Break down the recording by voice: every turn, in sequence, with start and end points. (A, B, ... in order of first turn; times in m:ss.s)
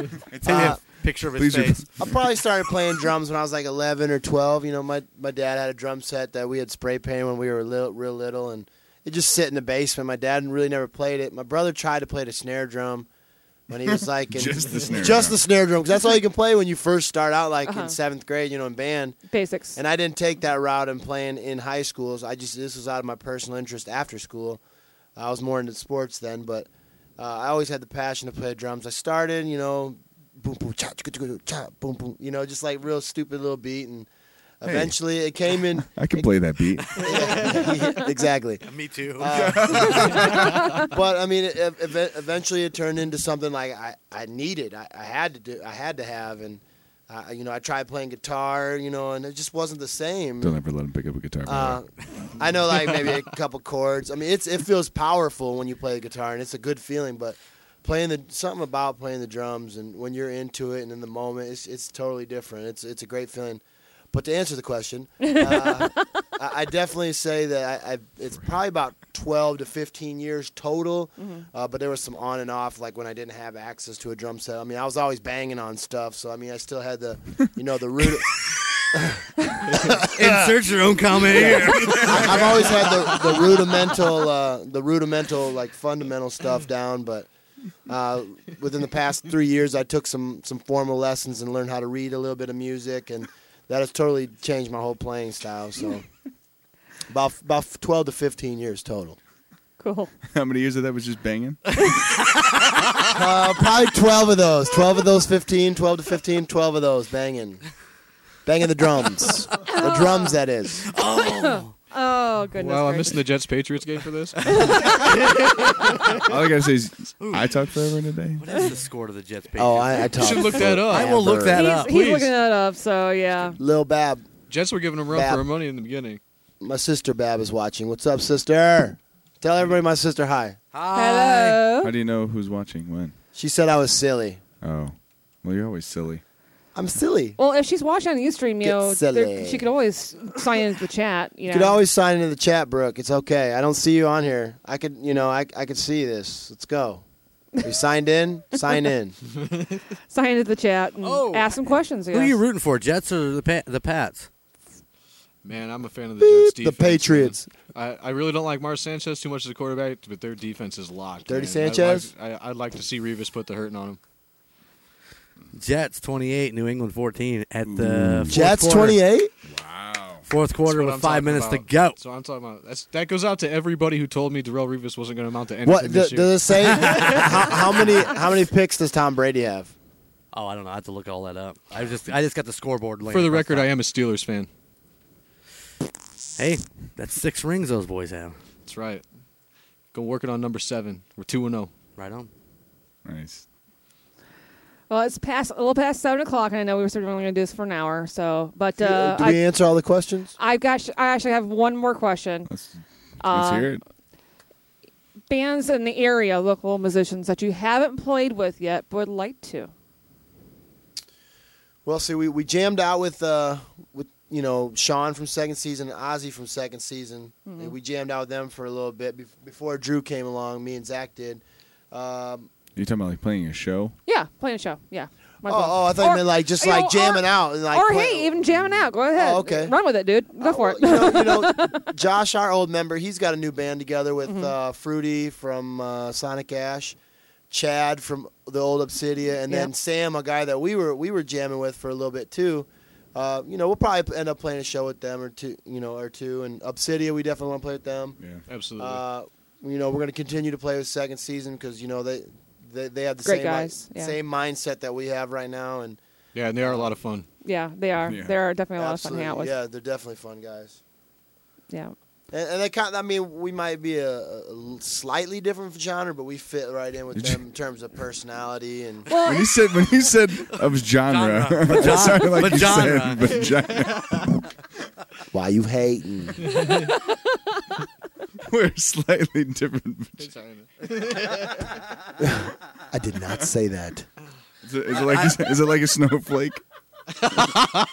0:00.3-0:02.1 A
0:00.4-0:00.8 B
0:00.4-0:01.9 C
0:02.0-0:13.1 B
0:13.7-0:19.2 B
0:14.3-0:15.4 A
0:17.6-0:18.0 D
0:19.3-0:19.8 D
0:19.7-0:24.6 B
0:25.2-0:34.1 B
0:34.6-0:36.3 B
0:34.6-0:34.9 A
0:35.8-0:37.0 A
0:36.9-0:37.7 C
0:36.9-0:38.6 B
0:38.6-0:39.9 C
0:39.2-0:50.6 B
0:39.3-0:40.8 A
0:40.5-0:40.8 D
0:50.4-0:51.8 A
0:51.4-1:20.6 B
1:05.2-1:06.0 D
1:11.2-1:11.4 D
1:20.1-1:23.5 C
1:21.3-1:27.3 B
1:27.9-1:36.0 B
1:37.1-1:39.2 B
1:39.8-1:40.1 D
1:40.3-1:41.9 A
1:43.1-1:47.6 B
1:48.4-1:50.9 B
1:49.6-1:50.4 D
1:50.9-1:51.7 C
1:51.0-1:53.2 D
1:52.6-1:55.4 E
1:54.6-1:54.9 D
1:56.2-1:58.4 A
1:57.2-1:57.8 C
1:58.4-2:02.2 C
1:59.5-2:01.7 B
2:00.2-2:01.2 E
2:01.5-2:03.6 D
2:01.8-2:02.3 E
2:03.6-2:04.2 B
2:04.5-2:06.2 E
2:05.1-2:05.4 B
2:06.6-2:10.6 B
2:10.7-2:11.7 C
2:10.9-2:11.9 D
2:11.8-2:13.1 A
2:13.3-2:14.4 B
2:14.6-2:16.2 A
2:16.7-2:17.4 B
2:17.4-2:21.8 D
2:18.6-2:19.6 B
2:21.5-2:27.0 B
2:27.6-2:29.2 B
2:29.5-2:29.8 E
2:30.1-2:32.4 D
2:31.0-2:31.5 E
2:32.1-2:34.3 C
2:35.4-2:44.0 E
2:36.2-2:37.5 B
2:41.3-2:42.1 B
2:45.5-2:49.0 C
2:47.6-2:48.5 A
2:48.3-2:49.3 B
2:49.5-2:50.3 A
2:50.2-2:52.0 C
2:50.6-2:56.4 E
2:55.6-2:59.7 B
2:56.7-2:57.6 C
3:00.3-3:03.7 C
3:03.1-3:04.5 E
3:06.4-3:08.4 C
3:08.6-3:09.0 E
3:09.9-3:11.7 E
3:12.0-3:12.3 C
3:13.0-3:13.4 A
3:14.9-3:19.4 D
3:18.8-3:20.3 B
3:20.4-3:22.5 D
3:22.5-3:23.8 A
3:23.2-3:23.7 D
3:25.3-3:29.7 D
3:31.8-3:42.5 B
3:37.4-3:37.7 D
3:42.8-3:44.0 A
3:44.0-3:51.9 D
3:45.4-3:49.8 B
3:50.4-3:57.0 B
3:54.2-3:54.5 D
3:57.5-4:08.2 B
4:08.2-4:08.4 A
4:08.5-4:09.0 E
4:08.8-4:16.0 B
4:13.2-4:14.1 D
4:16.3-4:17.3 E
4:16.6-4:16.9 B
4:17.4-4:19.5 D
4:18.0-4:18.4 A
4:18.8-4:20.8 B
4:22.3-4:29.1 B
4:27.1-4:27.4 A
4:29.1-4:29.6 D
4:29.2-4:34.4 A
4:30.5-4:33.7 C
4:35.3-4:36.4 B
4:36.7-4:37.2 D
4:38.4-4:40.3 A
4:40.2-4:41.8 E
4:42.2-4:44.0 B
4:44.6-4:46.6 A
4:44.9-4:45.4 C